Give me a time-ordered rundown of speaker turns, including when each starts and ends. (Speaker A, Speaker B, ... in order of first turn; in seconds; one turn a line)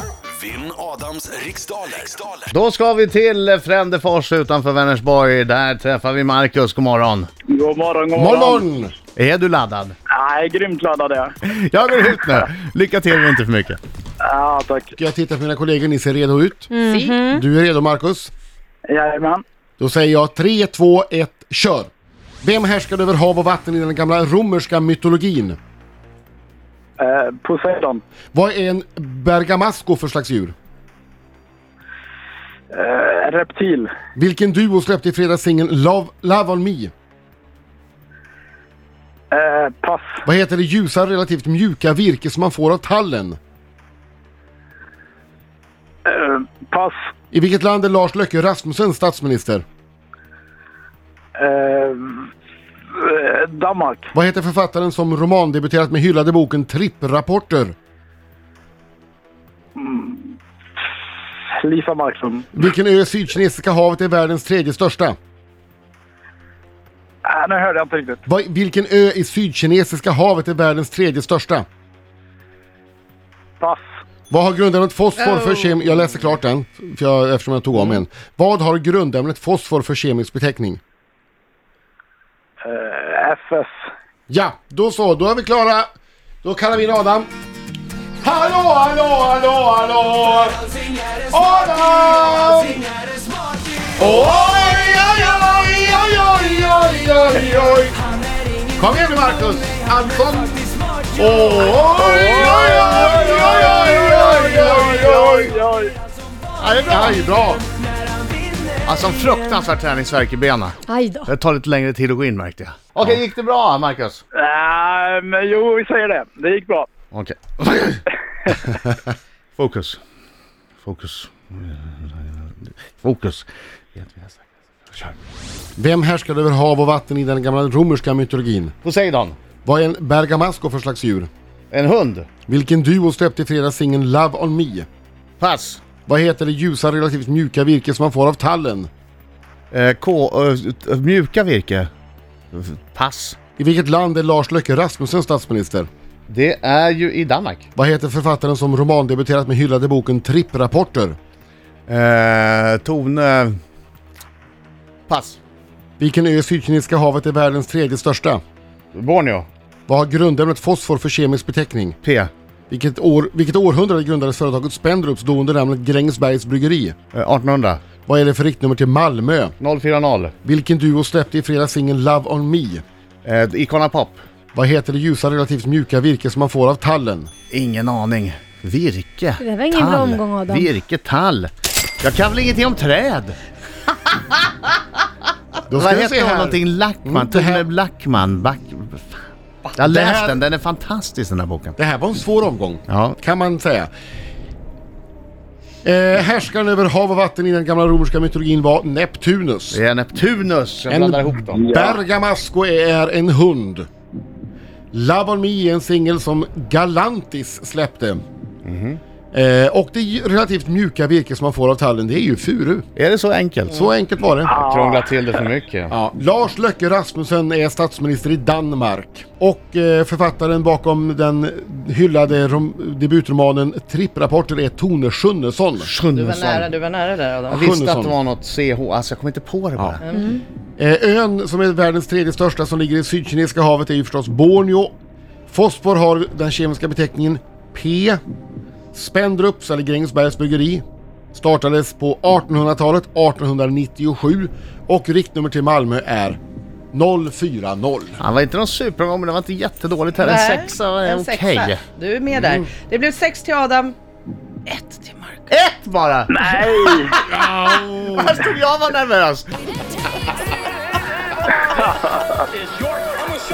Speaker A: 0.3-2.4
Speaker B: 2.5-7.3
Speaker C: 7.5-8.7
Speaker D: 8.1-9.0
Speaker B: 9.2-9.9
Speaker C: 10.1-11.3
Speaker B: 11.4-13.8
Speaker C: 14.2-14.9
Speaker D: 15.0-16.7
Speaker E: 16.7-17.4
Speaker F: 16.9-17.3
Speaker D: 17.2-18.3
Speaker C: 18.9-19.4
Speaker D: 19.8-21.9
Speaker D: 22.4-25.6
Speaker C: 27.0-28.0
Speaker D: 28.3-30.5
Speaker C: 32.7-33.9
Speaker D: 34.2-36.9
Speaker C: 39.3-40.2
Speaker D: 40.2-43.4
Speaker C: 46.0-47.0
Speaker D: 47.3-49.6
Speaker C: 51.4-52.3
Speaker C: 52.9-54.1
Speaker D: 54.1-57.8
Speaker C: 59.8-60.4
Speaker C: 61.6-62.6
Speaker D: 62.5-65.2
Speaker C: 67.2-68.2
Speaker D: 68.3-71.7
Speaker D: 74.3-80.8
Speaker C: 82.6-83.7
Speaker D: 84.3-85.9
Speaker D: 86.4-87.3
Speaker D: 88.2-90.6
Speaker D: 91.3-92.9
Speaker D: 94.0-98.0
Speaker D: 98.8-105.5
Speaker B: 102.0-104.8
Speaker C: 102.0-105.9
Speaker B: 106.6-107.2
Speaker D: 106.8-107.6
Speaker B: 108.8-114.2
Speaker E: 110.9-111.3
Speaker C: 114.3-116.9
Speaker B: 117.1-118.8
Speaker B: 119.6-120.0
Speaker B: 120.8-124.4
Speaker B: 124.9-125.2
Speaker D: 125.8-128.7
Speaker B: 128.8-129.4
Speaker D: 129.6-131.3
Speaker B: 131.7-132.3
Speaker D: 132.5-134.9
Speaker B: 135.4-135.8
Speaker D: 136.1-138.9
Speaker B: 139.7-141.9
Speaker B: 142.5-143.4
Speaker D: 143.6-145.9
Speaker B: 146.3-147.7
Speaker D: 147.8-151.2
Speaker B: 151.9-153.6
Speaker B: 155.1-155.4
Speaker D: 156.0-158.4
Speaker B: 158.9-159.5
Speaker D: 159.9-162.0
Speaker B: 162.0-162.3
Speaker D: 162.7-166.9
Speaker B: 167.1-167.8
Speaker D: 168.1-169.5
Speaker B: 169.6-170.3
Speaker D: 170.4-172.8
Speaker B: 173.2-174.2
Speaker D: 174.5-177.3
Speaker B: 177.5-183.4
Speaker E: 179.4-180.7
Speaker D: 185.7-187.7
Speaker B: 185.7-189.2
Speaker B: 189.8-191.8
Speaker D: 189.8-190.4
Speaker D: 191.8-193.9
Speaker B: 192.9-193.2
Speaker D: 195.8-199.8
Speaker B: 199.7-201.6
Speaker D: 200.9-203.9
Speaker C: 201.5-202.0
Speaker D: 204.9-208.2
Speaker B: 208.7-209.0
Speaker D: 209.3-212.9
Speaker B: 213.0-213.9
Speaker D: 213.7-214.6
Speaker C: 214.5-215.1
Speaker B: 214.6-215.9
Speaker D: 215.9-225.9
Speaker B: 225.8-226.7
Speaker F: 226.2-227.6
Speaker B: 227.5-230.0
Speaker D: 227.5-228.2
Speaker F: 230.0-230.4
Speaker D: 230.8-234.9
Speaker D: 235.5-238.2
Speaker D: 238.9-246.4
Speaker D: 246.9-248.2
Speaker B: 248.2-251.8
Speaker F: 250.2-254.0
Speaker F: 254.7-255.5
Speaker B: 255.5-259.5
Speaker C: 256.3-257.2
Speaker D: 257.4-258.3
Speaker C: 261.7-262.3